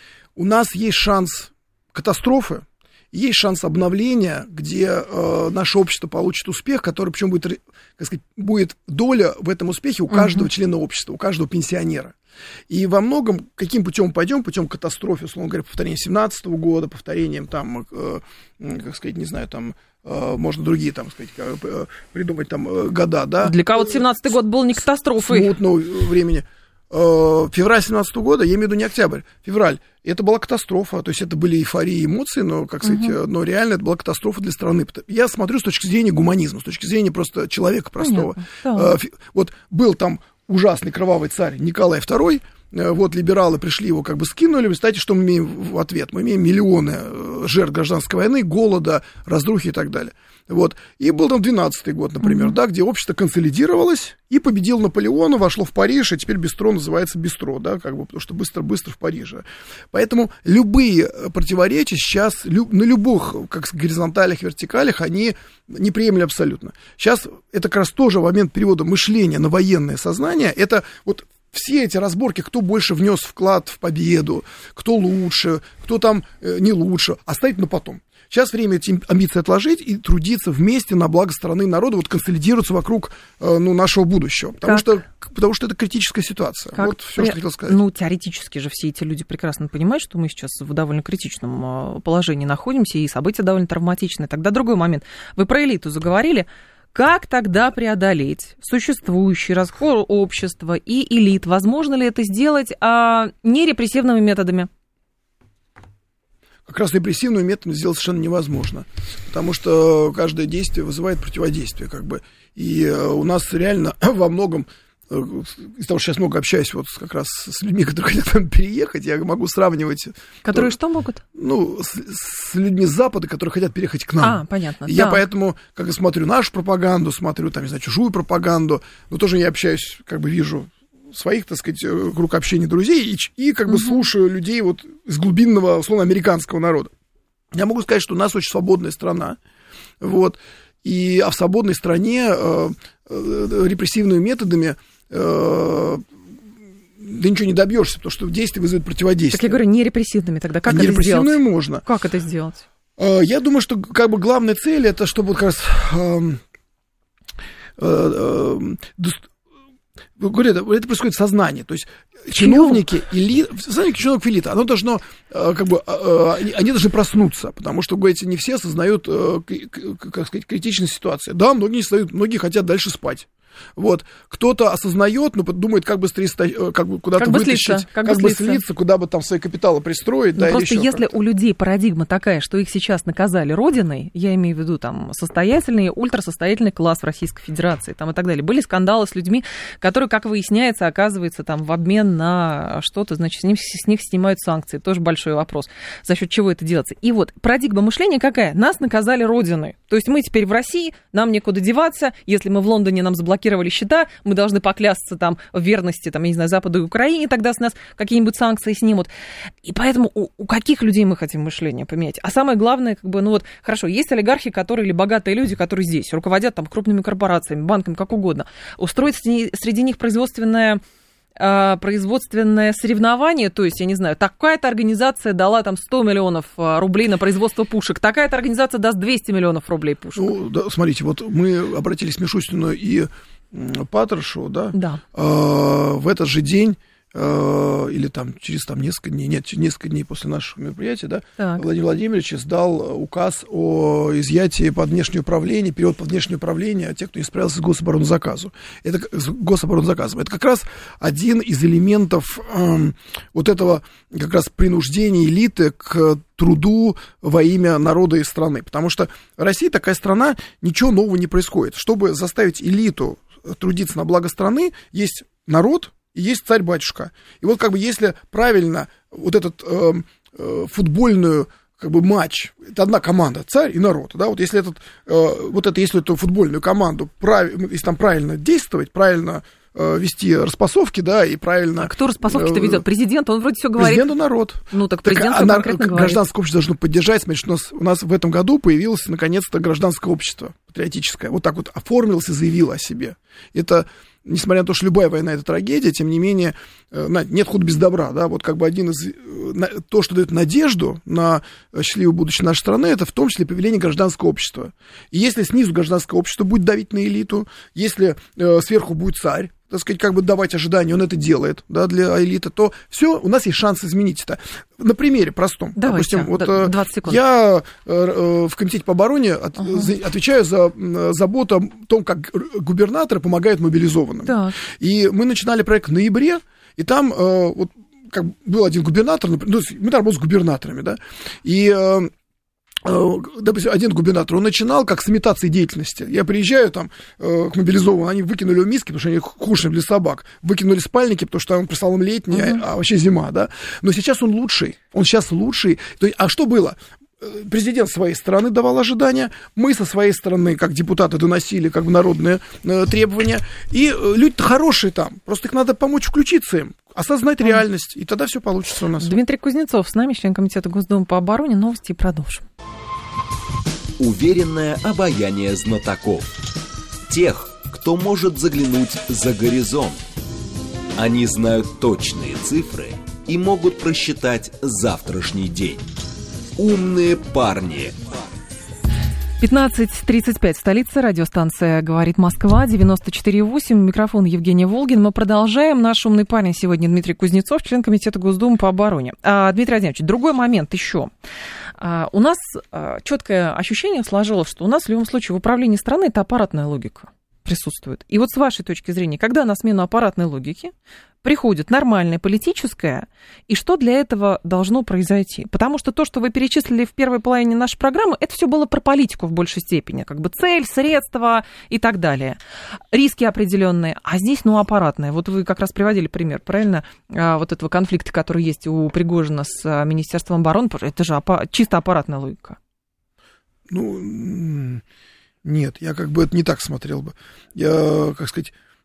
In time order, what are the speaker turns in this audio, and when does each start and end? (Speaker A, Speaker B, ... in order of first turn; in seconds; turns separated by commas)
Speaker A: 0.4-12.2, Speaker B: 10.1-10.5, Speaker A: 12.7-24.0, Speaker B: 23.4-25.5, Speaker A: 25.2-87.8, Speaker B: 32.8-33.1, Speaker B: 38.0-39.0, Speaker B: 86.8-104.7, Speaker A: 106.7-120.7, Speaker B: 120.4-121.2, Speaker A: 121.3-136.9, Speaker B: 124.2-125.2, Speaker A: 137.5-139.4, Speaker A: 140.0-146.0, Speaker A: 147.0-149.6, Speaker B: 149.3-152.6, Speaker A: 150.7-151.8, Speaker A: 153.0-156.4, Speaker A: 157.8-159.3, Speaker A: 160.2-181.2, Speaker B: 162.4-162.8, Speaker B: 177.2-178.6, Speaker B: 180.4-209.1, Speaker B: 209.6-220.8, Speaker B: 221.4-230.3, Speaker A: 230.2-282.8, Speaker B: 234.7-235.0, Speaker B: 241.4-241.7, Speaker B: 281.8-284.1, Speaker A: 283.8-332.1, Speaker B: 284.7-286.2, Speaker B: 315.8-317.2, Speaker B: 324.3-324.6, Speaker A: 332.8-359.2, Speaker B: 342.3-342.6, Speaker B: 359.0-362.4, Speaker C: 364.0-366.3, Speaker C: 367.1-370.0, Speaker C: 371.0-375.8, Speaker C: 376.6-378.2, Speaker B: 379.4-391.1, Speaker B: 391.8-400.7, Speaker B: 401.2-412.4, Speaker B: 412.9-422.6, Speaker A: 423.7-424.8, Speaker A: 425.4-428.5